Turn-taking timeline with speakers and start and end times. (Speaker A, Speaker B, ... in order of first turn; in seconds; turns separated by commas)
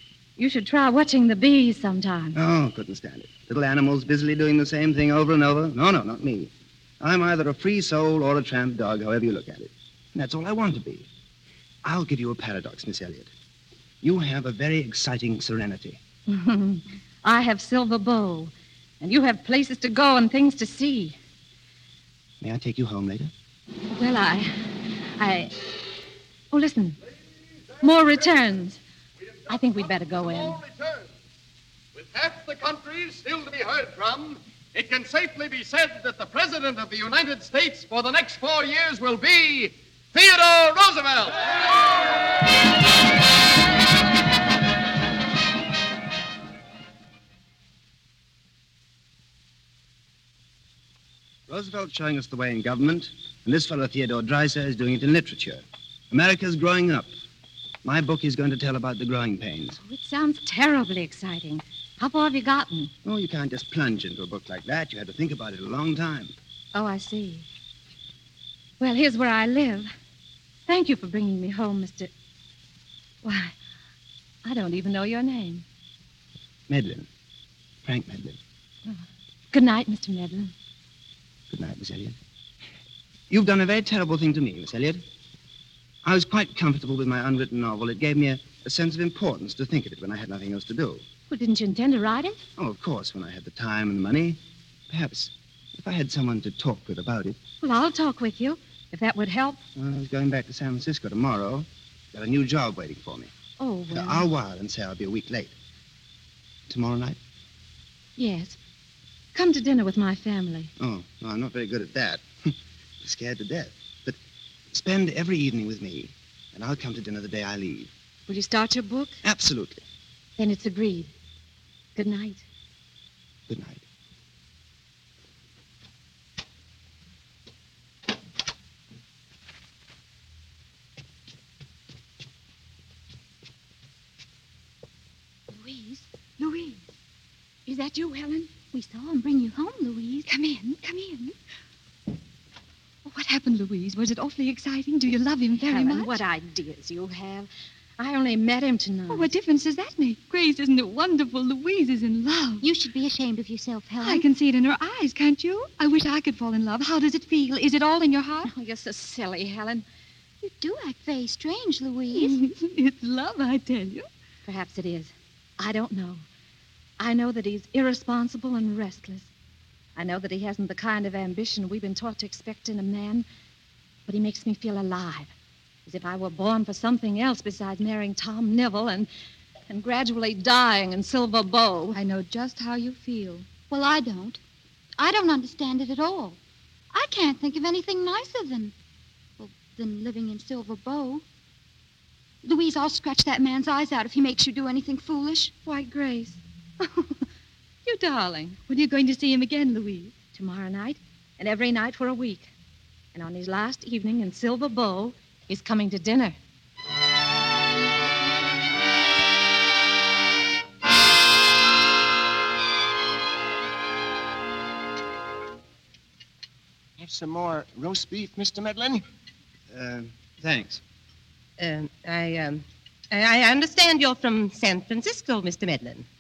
Speaker A: 0.4-2.4, Speaker B: 2.4-11.1, Speaker B: 11.8-13.3, Speaker B: 14.0-16.0, Speaker A: 16.3-21.2, Speaker B: 22.4-23.3, Speaker A: 23.9-24.6, Speaker A: 25.2-25.6, Speaker A: 26.5-27.0, Speaker C: 27.2-28.2, Speaker A: 27.8-28.8, Speaker C: 29.2-31.1, Speaker A: 29.5-30.6, Speaker C: 31.9-41.4, Speaker B: 51.5-57.1, Speaker B: 57.8-59.8, Speaker A: 59.8-62.9, Speaker B: 63.0-66.3, Speaker A: 66.7-67.5, Speaker A: 68.8-69.9, Speaker A: 70.7-72.1, Speaker A: 73.2-73.5, Speaker A: 74.4-75.7, Speaker B: 76.7-77.1, Speaker B: 77.8-78.4, Speaker A: 79.5-80.5, Speaker B: 81.5-82.2, Speaker B: 83.3-85.0, Speaker B: 86.0-91.0, Speaker A: 91.3-92.4, Speaker B: 92.6-94.4, Speaker B: 94.9-97.4, Speaker A: 97.6-99.6, Speaker B: 99.8-103.3, Speaker A: 103.6-104.3, Speaker B: 103.9-105.5, Speaker B: 106.7-107.2, Speaker A: 108.2-108.6, Speaker A: 109.3-110.7, Speaker B: 110.8-114.2, Speaker B: 114.7-117.9, Speaker A: 118.3-119.2, Speaker B: 119.2-119.8, Speaker A: 120.4-121.1, Speaker A: 122.0-122.4, Speaker B: 123.5-123.8, Speaker D: 135.6-136.1, Speaker A: 137.7-138.6, Speaker D: 138.7-140.3, Speaker E: 140.3-141.3, Speaker E: 143.1-146.2, Speaker A: 145.6-149.3, Speaker E: 149.1-152.7, Speaker D: 152.6-154.2, Speaker E: 154.0-158.5, Speaker A: 158.4-159.8, Speaker D: 160.4-162.4, Speaker E: 162.1-164.1, Speaker A: 164.4-166.2, Speaker A: 167.0-169.3, Speaker A: 170.0-173.3, Speaker A: 174.1-175.3, Speaker A: 175.9-179.1, Speaker A: 179.7-182.0, Speaker E: 181.9-183.6, Speaker D: 183.6-184.4, Speaker D: 185.0-186.4, Speaker D: 186.9-188.7, Speaker D: 189.4-191.2, Speaker D: 192.4-195.5, Speaker A: 195.6-196.4, Speaker A: 197.9-198.6, Speaker E: 198.7-200.2, Speaker A: 200.3-202.5, Speaker A: 203.1-206.4, Speaker F: 217.0-219.0, Speaker B: 219.7-220.8, Speaker G: 221.6-226.1